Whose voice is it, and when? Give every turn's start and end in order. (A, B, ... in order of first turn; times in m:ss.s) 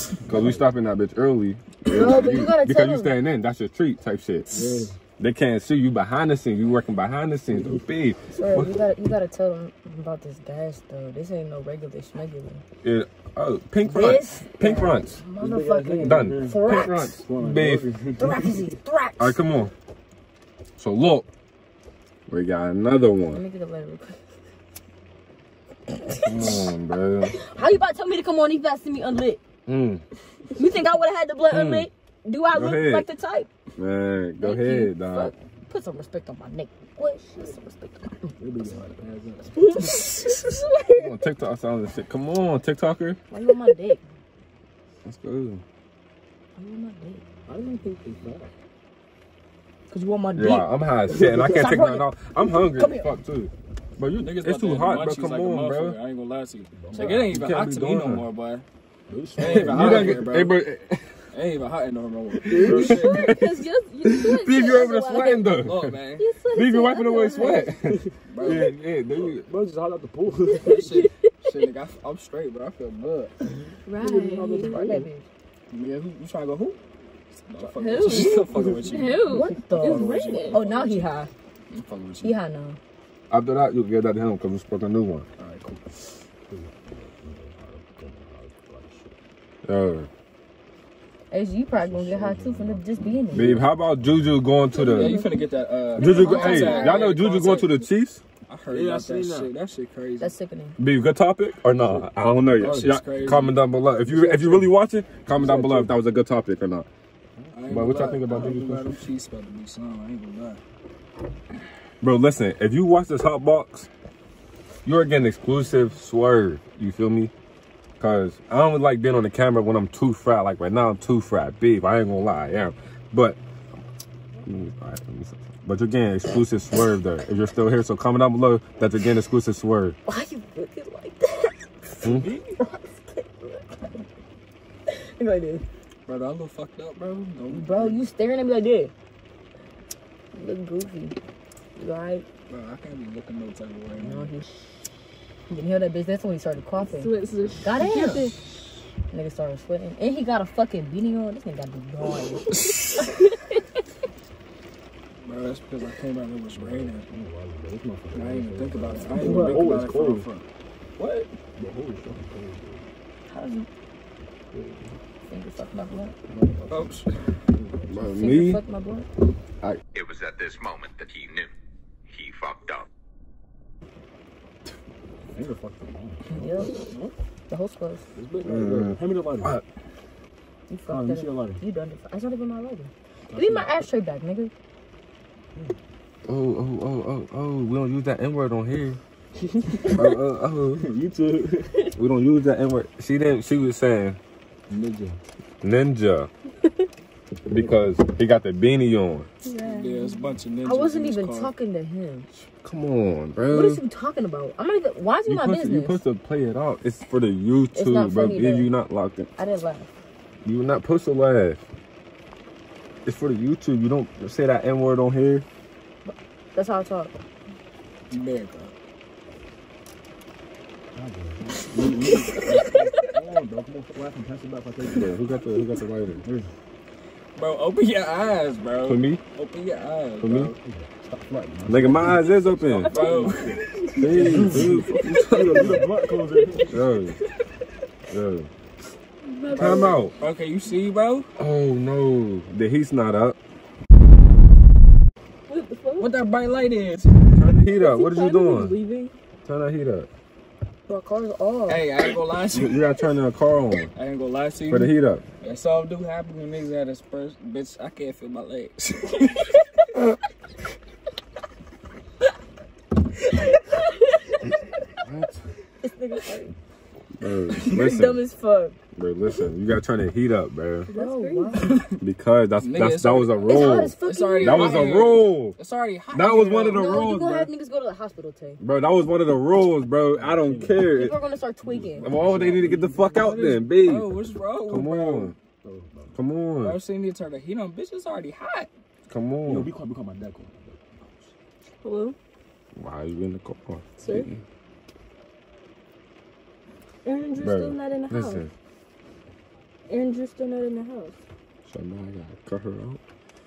0:00.3-0:04.5 A
0:00.3-0:00.6 B
0:01.9-0:03.1 C
0:04.5-0:05.0 B
0:05.2-0:08.8 A
0:07.5-0:07.8 B
0:08.3-0:12.6 C
0:12.8-0:15.2 A
0:13.9-0:17.2 C
0:13.9-0:18.8 B
0:16.0-0:17.9 A
0:18.2-0:19.4 C
0:19.2-0:19.7 A
0:20.8-0:21.3 A
0:22.3-0:23.4 A
0:23.3-0:24.2 C
0:25.9-0:26.7 C
0:26.2-0:27.4 A
0:27.3-0:29.4 C
0:29.7-0:30.0 A
0:30.6-0:33.5 C
0:31.5-0:31.9 A
0:32.5-0:33.1 A
0:33.8-0:35.3 A
0:34.4-0:38.3 C
0:38.4-0:39.9 B
0:39.6-0:41.2 C
0:39.8-0:40.6 D
0:40.9-0:43.2 A
0:43.3-0:44.0 C
0:45.0-0:45.6 A
0:46.6-0:47.2 C
0:47.5-0:48.5 B
0:49.9-0:50.7 C
0:50.4-0:56.0 A
0:51.1-0:51.7 B
0:51.3-0:53.1 C
0:54.2-0:58.6 E
0:56.8-0:57.4 B
0:57.0-0:58.2 A
0:59.1-1:00.3 B
0:59.4-1:00.6 E
0:59.4-1:01.1 A
1:01.3-1:03.4 E
1:02.5-1:03.3 B
1:02.6-1:05.6 D
1:02.7-1:06.0 A
1:05.6-1:06.2 E
1:06.2-1:07.7 D
1:06.5-1:09.5 A
1:08.3-1:08.7 E
1:09.4-1:11.0 B
1:10.5-1:11.1 D
1:10.6-1:13.3 E
1:13.9-1:14.8 D
1:14.0-1:15.1 B
1:14.6-1:15.2 C
1:15.7-1:16.8 E
1:17.4-1:21.1 E
1:17.6-1:19.0 B
1:17.8-1:20.6 D
1:19.3-1:21.3 C
1:21.7-1:22.4 E
1:22.2-1:22.8 C
1:23.3-1:25.3 A
1:25.4-1:25.8 E
1:26.5-1:29.2 B
1:29.6-1:30.1 A
1:31.3-1:33.6 C
1:31.7-1:34.3 B
1:33.3-1:35.2 A
1:34.8-1:37.8 E
1:35.9-1:37.2 C
1:36.0-1:38.2 A
1:38.5-1:40.3 E
1:38.7-1:39.5 B
1:40.2-1:40.8 C
1:40.8-1:46.9 A
1:42.6-1:43.6 E
1:42.6-1:43.0 B
1:44.1-1:44.7 B
1:45.3-1:46.0 B
1:47.4-1:48.6 B
1:47.5-1:50.6 E
1:47.7-1:48.9 A
1:52.0-1:53.9 A
1:54.8-1:57.3 A
1:58.0-2:03.4 A
2:04.4-2:10.0 A
2:10.1-2:11.6 C
2:12.0-2:12.3 A
2:12.0-2:12.6 E
2:12.6-2:13.7 C
2:14.9-2:15.6 C
2:16.1-2:18.0 E
2:17.5-2:18.9 C
2:20.4-2:21.2 C
2:21.8-2:22.3 C
2:22.5-2:24.4 E
2:24.0-2:24.5 C
2:25.5-2:28.3 C
2:26.9-2:28.3 D
2:27.8-2:28.3 E
2:29.1-2:32.6 C
2:35.2-2:37.1 E
2:36.5-2:40.3 B
2:38.1-2:40.4 E
2:41.0-2:41.3 E
2:41.6-2:42.8 B
2:43.3-2:43.7 C
2:44.5-2:44.9 B
2:45.3-2:46.2 C
2:46.3-2:46.8 B
2:46.7-2:47.2 E
2:47.5-2:48.1 B
2:47.9-2:48.6 A
2:48.1-2:49.1 C
2:49.9-2:51.5 F
2:52.1-2:52.9 F
2:55.3-2:57.1 B
2:56.3-2:56.9 C
2:57.5-2:58.0 C
2:58.2-2:59.6 B
2:58.4-2:59.6 A
3:00.7-3:04.5 C
3:00.9-3:01.6 B
3:03.3-3:03.7 B
3:06.3-3:09.0 A
3:09.4-3:10.2 B
3:09.9-3:10.9 A
3:10.8-3:12.0 B
3:12.0-3:14.2 A
3:14.7-3:15.2 B
3:15.6-3:16.3 A
3:17.5-3:19.3 A
3:17.5-3:17.9 B
3:19.4-3:20.3 D
3:19.6-3:21.5 E
3:20.6-3:22.3 C
3:22.6-3:23.8 A
3:23.5-3:26.0 C
3:25.3-3:29.3 A
3:27.7-3:28.7 C
3:29.4-3:29.9 C
3:30.4-3:31.6 A
3:33.0-3:35.4 A
3:36.1-3:37.1 C
3:38.1-3:38.7 E
3:40.9-3:45.2 B
3:41.9-3:42.7 E
3:44.9-3:46.2 A
3:46.2-3:46.5 B
3:47.4-3:50.6 E
3:48.9-3:49.2 A
3:50.2-3:50.5 A
3:50.6-3:56.8 B
3:51.7-3:52.9 A
3:52.8-3:53.6 E
3:54.0-3:55.8 A
3:54.9-3:56.7 D
3:56.7-3:57.2 A
3:58.1-3:58.5 A
3:59.2-4:00.1 D
3:59.5-4:01.3 E
3:59.6-4:00.1 A
4:01.4-4:03.4 A
4:05.5-4:06.2 D
4:06.0-4:07.2 E
4:07.3-4:08.8 A
4:07.7-4:09.2 D
4:09.4-4:10.1 A
4:10.9-4:11.8 C
4:11.7-4:12.8 E
4:12.5-4:13.9 A
4:14.0-4:19.5 E
4:14.7-4:15.2 A
4:25.0-4:25.4 A
4:25.8-4:26.5 C
4:27.2-4:28.2 A
4:27.6-4:28.8 C
4:29.0-4:30.9 A
4:30.9-4:31.8 D
4:30.9-4:31.9 C
4:32.0-4:35.6 A
4:32.6-4:37.0 E
4:33.5-4:35.1 C
4:36.1-4:37.5 A
4:36.7-4:38.6 C
4:38.6-4:41.2 A
4:40.1-4:41.0 B
4:40.9-4:42.1 C
4:41.6-4:43.5 B
4:42.0-4:44.2 A
4:43.2-4:45.3 E
4:44.7-4:45.3 A
4:45.6-4:46.2 B
4:46.1-4:46.8 A
4:46.6-4:48.7 E
4:49.1-4:49.7 A
4:49.4-4:50.8 B
4:51.8-4:52.2 D
4:52.8-4:54.4 A
4:54.0-4:54.3 D
4:57.0-4:58.4 D
4:57.4-4:58.5 A
4:59.9-5:01.2 D
5:01.7-5:03.0 A